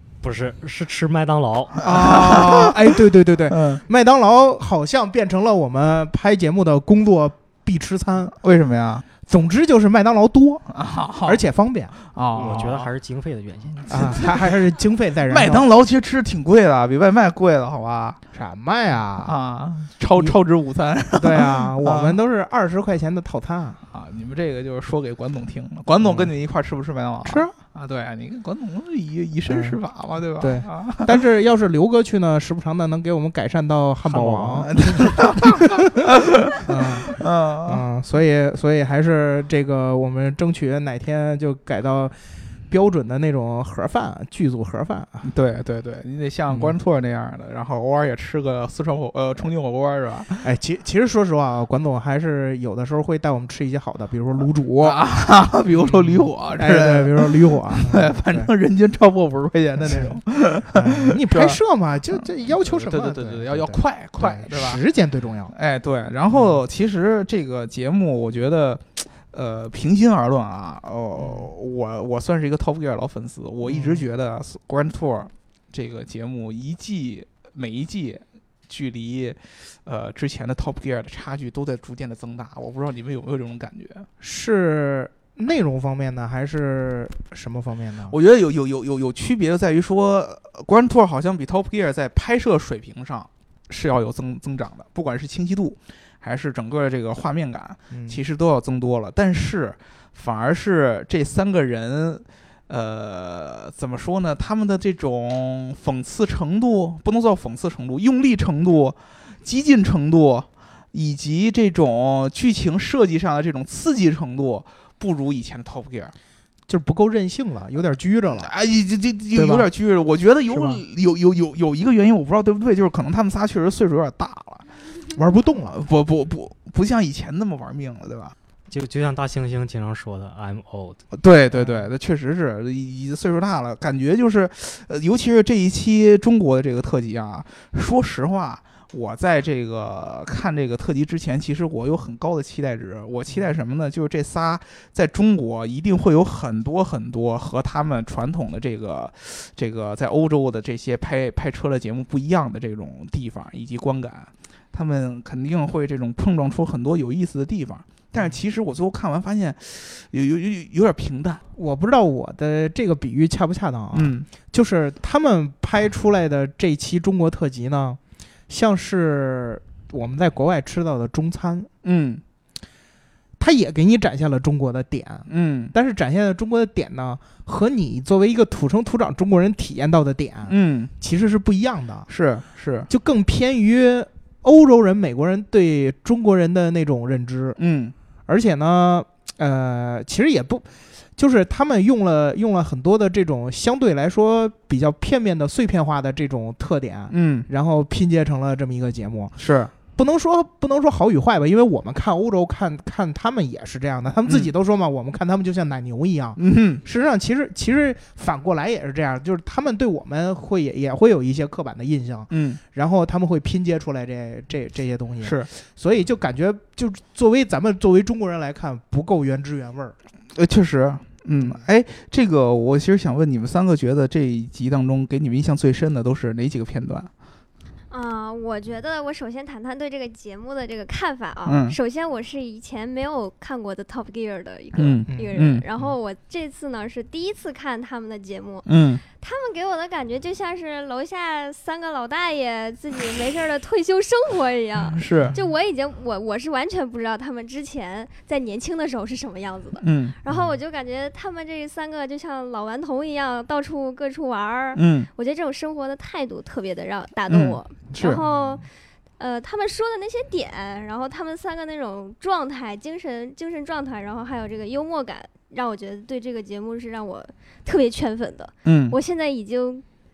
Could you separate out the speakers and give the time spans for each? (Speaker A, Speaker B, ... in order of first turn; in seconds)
Speaker A: 0.2-1.8, 12.3-14.3, 34.1-35.1, 128.7-131.0
Speaker B: 1.8-3.8, 8.4-9.1, 10.7-11.4, 12.1-12.9, 13.8-14.6, 15.3-18.2, 19.2-22.2, 23.9-31.2, 34.7-37.8, 45.2-50.5, 54.8-61.6, 62.1-64.8, 65.5-84.1, 88.1-116.1, 118.4-124.7, 125.6-128.3, 131.1-161.4, 163.9-164.3, 171.8-172.2, 175.3-175.7, 180.5-180.9, 182.1-182.9, 187.6-187.9, 197.1-197.5, 199.4-199.7, 204.2-204.5, 206.4-206.8, 212.3-212.6, 215.2-215.5, 220.3-227.1, 231.5-231.8, 234.8-235.7, 238.7-239.0, 244.9-245.4, 249.8-250.2, 254.8-255.1, 257.3-258.2, 268.6-269.0
Speaker C: 1.8-8.3, 9.2-10.7, 11.2-12.7, 13.9-15.7, 18.3-19.4, 21.1-23.8, 26.0-26.3, 27.3-27.5, 29.5-29.8, 30.4-42.1, 42.7-45.3, 46.5-46.8, 50.4-55.0, 55.8-58.5, 59.8-65.5, 66.3-66.6, 71.2-71.5, 73.7-74.0, 84.2-88.2, 97.9-98.2, 116.7-118.5, 119.3-119.7, 120.5-120.8, 125.1-125.8, 131.5-131.9, 161.6-171.7, 173.4-182.1, 182.9-187.6, 188.3-199.3, 199.9-220.0, 235.1-235.9, 250.3-250.6, 258.0-258.6
Speaker D: 227.9-238.7, 239.2-258.7, 259.2-269.8